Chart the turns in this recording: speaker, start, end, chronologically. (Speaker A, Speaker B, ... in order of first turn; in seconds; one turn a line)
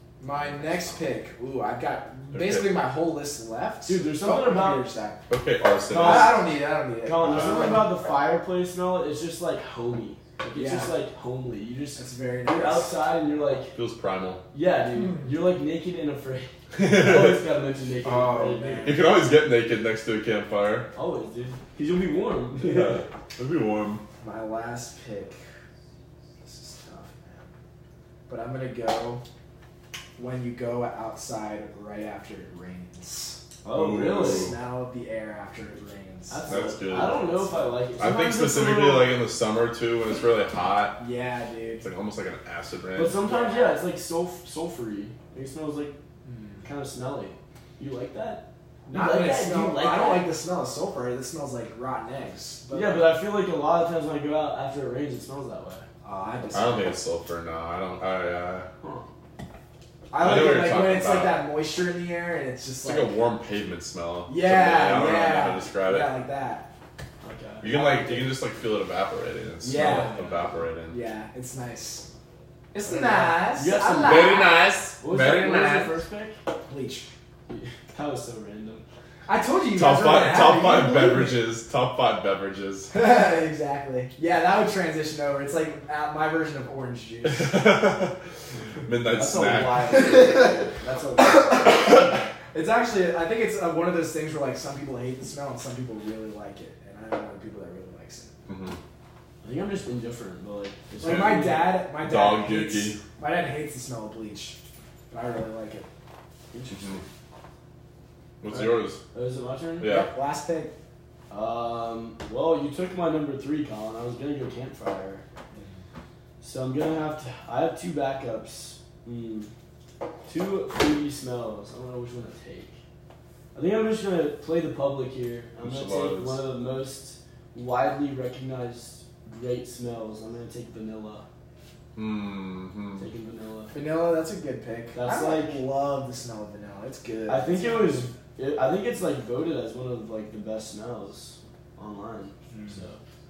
Speaker A: 0.2-5.2
Speaker B: 2.3-2.8
Speaker C: 3.9-4.8
Speaker B: 5.3-6.5
Speaker C: 5.9-6.5
Speaker A: 5.9-8.0
Speaker C: 7.0-13.7
Speaker B: 7.2-7.8
Speaker A: 10.5-11.0
Speaker A: 12.0-12.9
Speaker B: 13.8-14.4
Speaker C: 14.5-19.0
Speaker B: 16.8-17.4
Speaker A: 18.0-19.1
Speaker B: 18.8-20.9
Speaker C: 20.9-23.0
Speaker B: 22.6-24.0
Speaker A: 24.2-25.4
Speaker A: 26.4-27.5
Speaker A: 28.3-29.2
Speaker A: 30.2-33.4
Speaker C: 33.6-34.5
Speaker B: 33.7-34.6
Speaker A: 33.9-36.6
Speaker C: 36.3-39.1
Speaker B: 36.5-37.4
Speaker B: 38.0-41.0
Speaker A: 41.0-41.9
Speaker B: 41.8-43.2
Speaker C: 43.0-46.0
Speaker A: 43.2-43.8
Speaker A: 46.2-46.6
Speaker C: 46.6-50.3
Speaker A: 48.9-53.1
Speaker C: 52.7-55.9
Speaker A: 56.0-56.9
Speaker B: 56.5-58.7
Speaker A: 60.1-63.1
Speaker B: 60.2-61.4
Speaker B: 62.8-66.1
Speaker A: 64.3-66.7
Speaker C: 67.2-68.2
Speaker B: 67.6-71.0
Speaker A: 69.6-70.2
Speaker C: 69.7-70.5
Speaker A: 70.9-72.1
Speaker A: 72.7-74.6
Speaker C: 72.9-76.4
Speaker B: 74.0-75.9
Speaker A: 76.7-77.1
Speaker C: 77.5-78.8
Speaker A: 79.3-81.4
Speaker B: 79.7-82.9
Speaker A: 82.9-87.8
Speaker B: 87.3-88.1
Speaker B: 88.9-90.0
Speaker C: 89.2-92.1
Speaker A: 89.9-90.6
Speaker A: 91.2-98.3
Speaker B: 98.5-98.8
Speaker C: 99.4-101.8
Speaker A: 101.0-104.6
Speaker B: 101.0-101.3
Speaker B: 102.0-103.0
Speaker A: 105.1-105.9
Speaker C: 106.5-107.0
Speaker B: 106.7-107.0
Speaker B: 108.4-109.0
Speaker C: 108.5-109.9
Speaker B: 109.8-110.1
Speaker A: 109.8-110.7
Speaker C: 111.3-115.2
Speaker C: 116.4-119.5
Speaker C: 120.3-122.8
Speaker C: 123.5-131.3
Speaker B: 125.6-126.4
Speaker B: 131.9-133.1
Speaker C: 133.0-133.8
Speaker A: 133.7-138.1
Speaker C: 134.9-135.6
Speaker C: 137.3-143.0